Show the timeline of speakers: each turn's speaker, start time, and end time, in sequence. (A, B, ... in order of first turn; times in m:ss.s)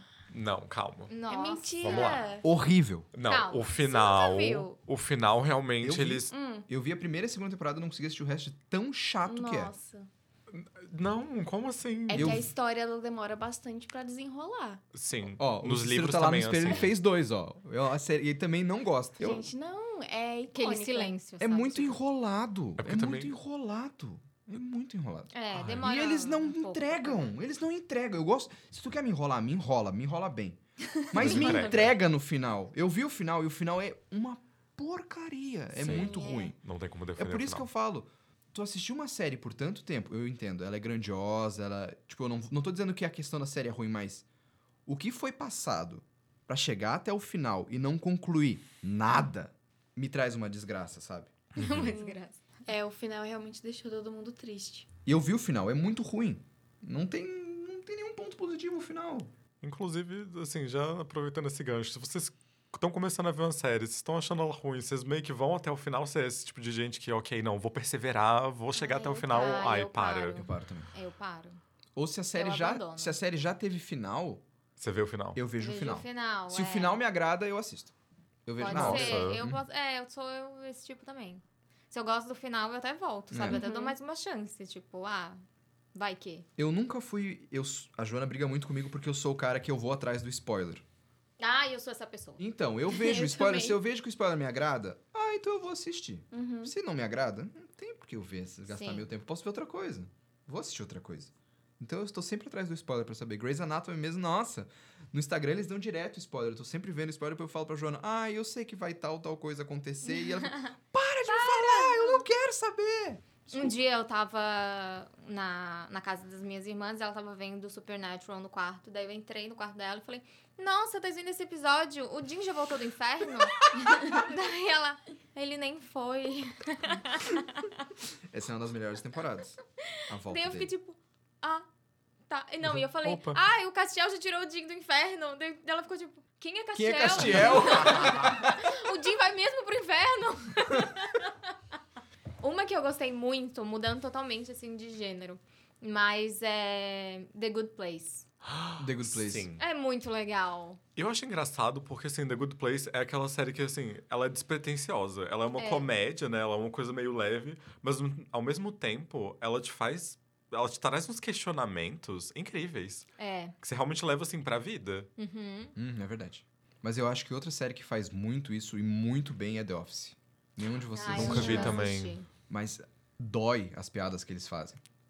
0:00.3-0:01.1 A
0:01.1-0:02.2 B
0:01.3-0:02.4 C
0:01.8-0:02.4 A
0:02.4-0:03.1 D
0:03.1-0:06.3 A
0:03.2-0:03.8 B
0:03.8-0:04.7 C
0:05.8-0:09.7 D
0:06.3-0:06.7 C
0:09.2-0:10.1 C
0:10.5-0:12.5 A
0:12.1-0:14.8 C
0:12.1-0:12.5 D
0:14.9-0:16.9 A
0:15.4-0:19.5 D
0:19.2-0:21.2 C
0:20.5-0:22.0 B
0:21.4-0:36.6 D
0:22.8-0:23.3 A
0:25.3-0:27.3 B
0:25.5-0:25.8 A
0:31.1-0:31.9 A
0:31.2-0:31.5 B
0:35.8-0:37.7 A
0:35.8-0:36.5 C
0:37.2-0:44.2 D
0:44.8-0:51.3 D
0:51.6-0:52.6 B
0:51.8-0:54.9 C
0:55.0-0:59.3 D
0:59.6-1:10.4 A
1:08.7-1:09.7 C
1:09.3-1:11.6 B
1:10.3-1:10.9 D
1:11.9-1:14.4 D
1:12.3-1:13.2 B
1:14.8-1:15.4 A
1:15.3-1:17.9 D
1:15.6-1:17.0 B
1:18.4-1:19.4 D
1:18.6-1:25.4 B
1:18.6-1:19.6 A
1:23.3-1:23.6 D
1:23.5-1:24.0 C
1:25.9-1:26.5 B
1:26.6-1:30.8 D
1:31.4-1:32.4 B
1:32.4-1:53.8 D
1:32.9-1:33.8 C
1:36.3-1:36.7 C
1:38.7-1:39.1 B
1:51.3-1:52.2 B
1:53.5-2:07.8 B
2:08.3-2:10.7 D
2:10.0-2:11.6 B
2:12.3-2:21.5 B
2:12.6-2:13.4 A
2:16.7-2:18.6 D
2:22.4-2:28.3 B
2:28.4-2:29.6 A
2:28.8-2:29.5 D
2:29.6-2:30.8 B
2:31.0-2:43.1 A
2:35.5-2:35.9 B
2:43.2-2:43.5 B
2:43.6-2:45.1 A
2:45.2-2:45.8 B
2:45.8-2:51.9 D
2:50.9-2:52.3 B
2:51.1-2:52.2 A
2:52.5-2:54.8 D